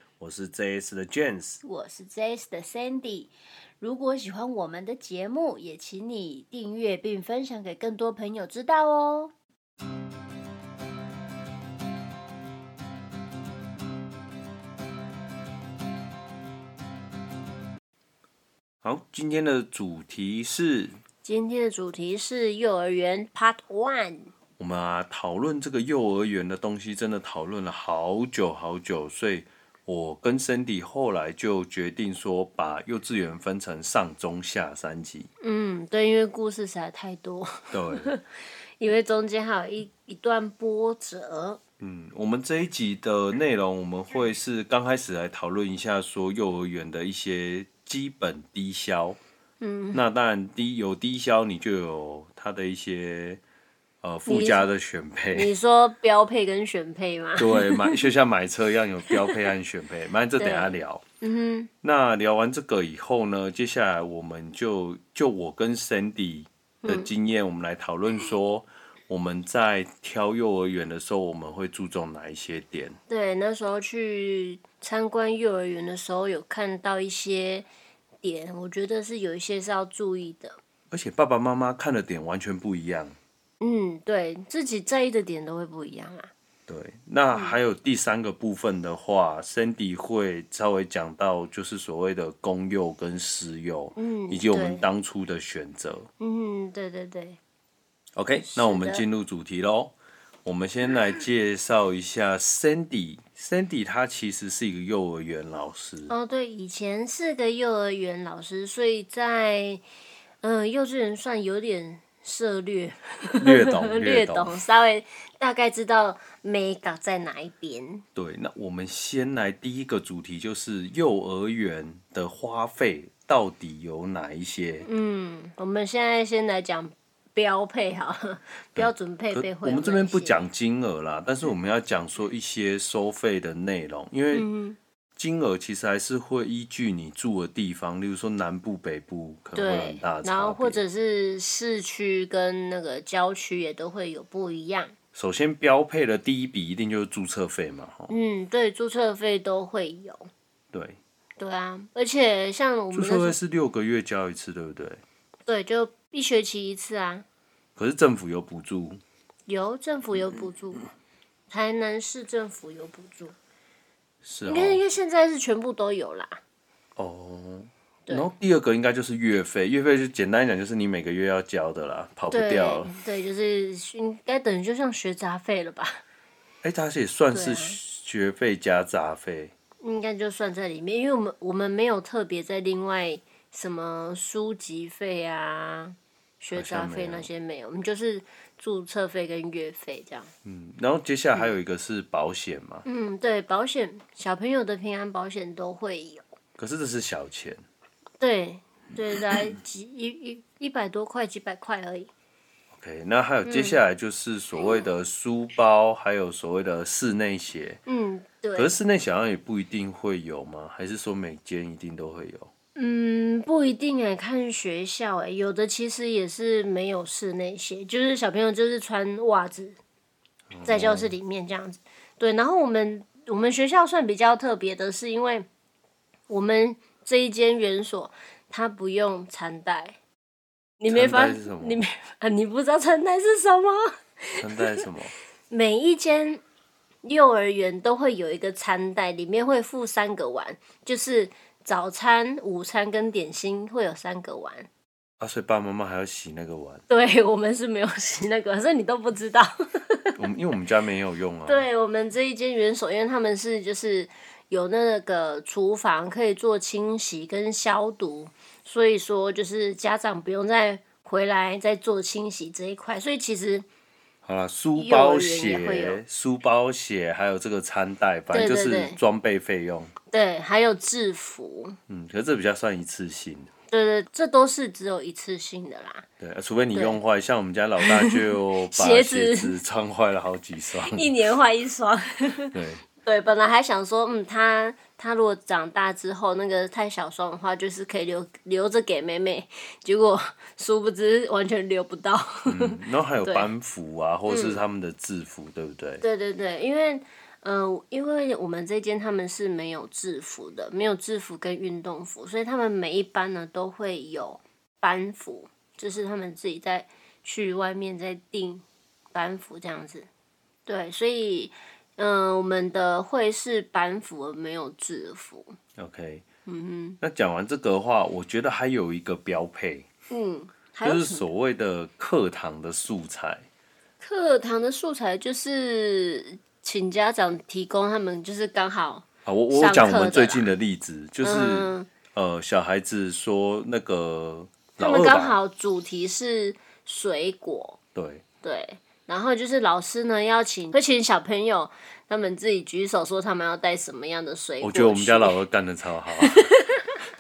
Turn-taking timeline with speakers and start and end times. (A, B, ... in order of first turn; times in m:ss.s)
0:00.2-0:01.6 A
0:01.6-0:09.3 B
0:18.8-0:21.0 A
0:21.2-0:24.3 B
0:24.6-0:35.3 A
0:35.4-0:38.2 B
0:37.7-0:38.1 A
0:38.8-0:41.6 B
0:41.8-0:49.2 A
0:49.6-0:50.0 B
0:49.9-0:53.4 A
0:54.0-0:55.5 A
0:54.3-0:54.6 B
0:55.3-0:58.0 B
0:57.4-1:01.0 A
0:59.1-0:59.4 B
1:00.4-1:01.7 B
1:01.8-1:13.0 A
1:06.8-1:07.1 B
1:13.1-1:17.7 B
1:18.2-1:20.6 B
1:20.9-1:23.2 A
1:23.6-1:26.3 B
1:26.7-1:36.1 A
1:34.0-1:34.8 B
1:36.2-1:37.4 B
1:38.2-1:39.9 A
1:38.4-1:39.0 B
1:40.4-1:46.1 A
1:46.1-1:49.8 B
1:50.4-1:58.0 B
1:53.4-1:54.6 A
1:58.2-2:04.9 A
2:04.8-2:10.4 B
2:08.8-2:14.5 A
2:14.3-2:14.8 B
2:15.2-2:20.8 A
2:19.6-2:24.9 B
2:25.2-2:28.1 A
2:28.1-2:30.3 B
2:30.7-2:31.0 A
2:31.4-2:33.4 B
2:32.9-2:35.0 A
2:35.5-2:37.2 B
2:37.8-2:39.0 A
2:39.5-2:40.8 B
2:41.5-2:43.4 B
2:44.2-2:44.8 A
2:44.5-2:46.4 B
2:47.0-2:52.9 A
2:52.3-2:56.0 B
2:56.6-2:59.5 A
2:57.3-2:57.8 B
2:59.8-3:10.3 B
3:06.5-3:07.3 A
3:10.4-3:12.8 A
3:12.8-3:16.2 B
3:16.6-3:17.6 A
3:18.2-3:22.1 B
3:22.7-3:27.8 A
3:23.4-3:23.8 B
3:27.9-3:28.7 B
3:28.6-3:32.5 A
3:32.8-3:39.8 B
3:40.5-3:41.1 A
3:40.6-3:45.5 B
3:46.3-3:50.0 B
3:50.8-3:54.8 B
3:50.9-3:51.8 A
3:54.4-3:55.1 A
3:55.5-3:56.4 B
3:57.0-4:04.7 B
4:05.2-4:06.8 A
4:06.9-4:10.2 B
4:10.2-4:11.7 A
4:11.5-4:23.7 B
4:24.2-4:29.9 A
4:24.8-4:26.0 B
4:28.3-4:29.0 B
4:30.1-4:31.8 B
4:31.9-4:33.5 A
4:33.7-4:36.1 B
4:36.2-4:41.1 A
4:37.8-4:39.5 B
4:40.9-4:53.5 B
4:42.5-4:42.8 A
4:52.5-4:56.0 A
4:54.3-4:54.6 B
4:56.0-5:10.1 B
5:10.7-5:15.6 B
5:15.8-5:16.2 A
5:16.5-5:17.0 B
5:17.0-5:19.9 A
5:20.1-5:21.3 B
5:20.8-5:23.5 A
5:24.0-5:30.5 B
5:29.2-5:35.4 A
5:31.2-5:31.9 B
5:34.8-5:37.8 B
5:38.0-5:38.2 A
5:38.4-5:45.4 B
5:44.6-5:46.5 A
5:46.4-5:46.8 B